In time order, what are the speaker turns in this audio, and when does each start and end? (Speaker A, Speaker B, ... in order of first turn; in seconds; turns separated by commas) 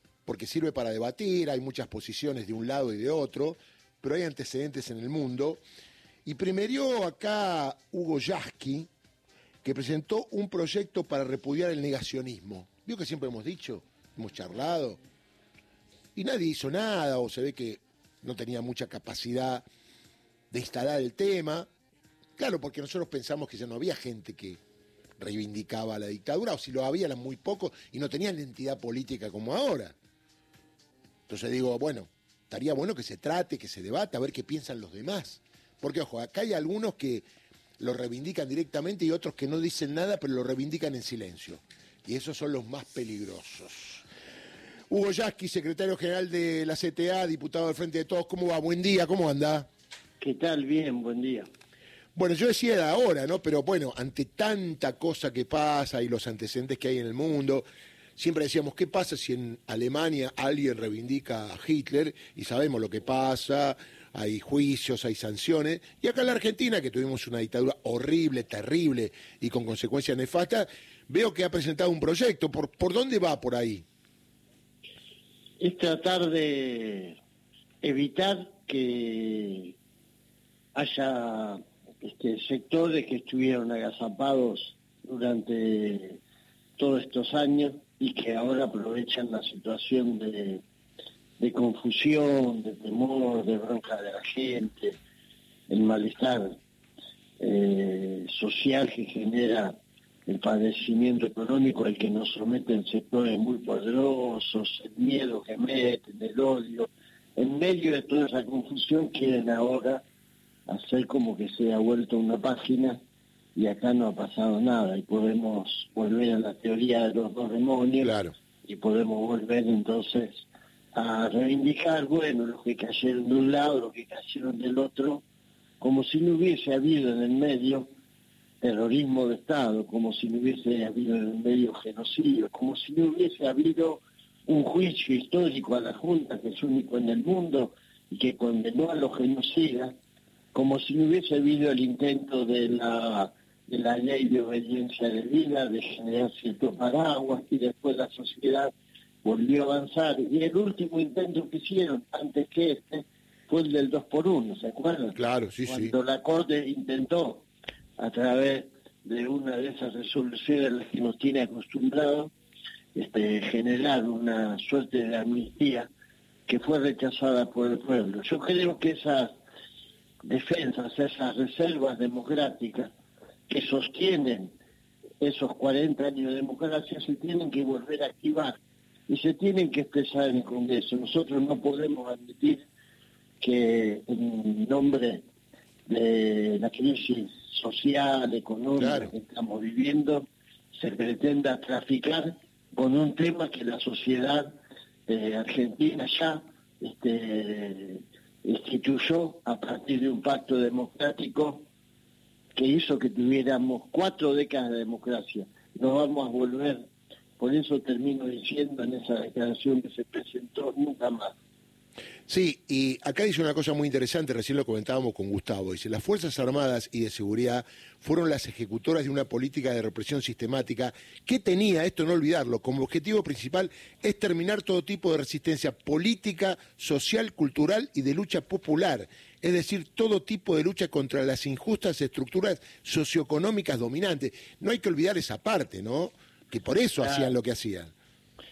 Speaker A: 0.2-5.6, Speaker A: 6.2-8.9, Speaker A: 9.6-15.0, Speaker A: 16.1-19.6, Speaker A: 20.5-21.7, Speaker A: 22.4-24.6, Speaker A: 25.2-29.9, Speaker A: 31.3-37.2, Speaker A: 37.8-44.0, Speaker A: 44.9-49.7, Speaker B: 50.2-51.5, Speaker A: 52.1-57.6, Speaker A: 58.2-73.8, Speaker B: 75.6-77.2, Speaker B: 77.8-79.7, Speaker B: 80.7-86.2, Speaker B: 86.8-90.6, Speaker B: 91.4-95.0, Speaker B: 95.7-96.6, Speaker B: 97.4-110.0, Speaker B: 110.7-113.0, Speaker B: 113.5-118.1, Speaker A: 118.0-118.3, Speaker B: 118.6-125.2, Speaker B: 125.8-127.9, Speaker B: 128.6-139.9, Speaker B: 140.5-157.5, Speaker A: 155.2-155.9, Speaker B: 158.0-162.3, Speaker B: 162.9-165.9, Speaker B: 166.5-169.4, Speaker B: 170.2-172.9, Speaker B: 173.5-174.5, Speaker B: 175.2-178.6, Speaker B: 179.1-182.6, Speaker B: 183.4-185.2, Speaker B: 185.9-194.6, Speaker A: 188.8-189.1, Speaker B: 195.1-201.7, Speaker B: 202.5-206.8, Speaker B: 207.4-211.3, Speaker A: 212.3-237.9, Speaker B: 237.0-237.3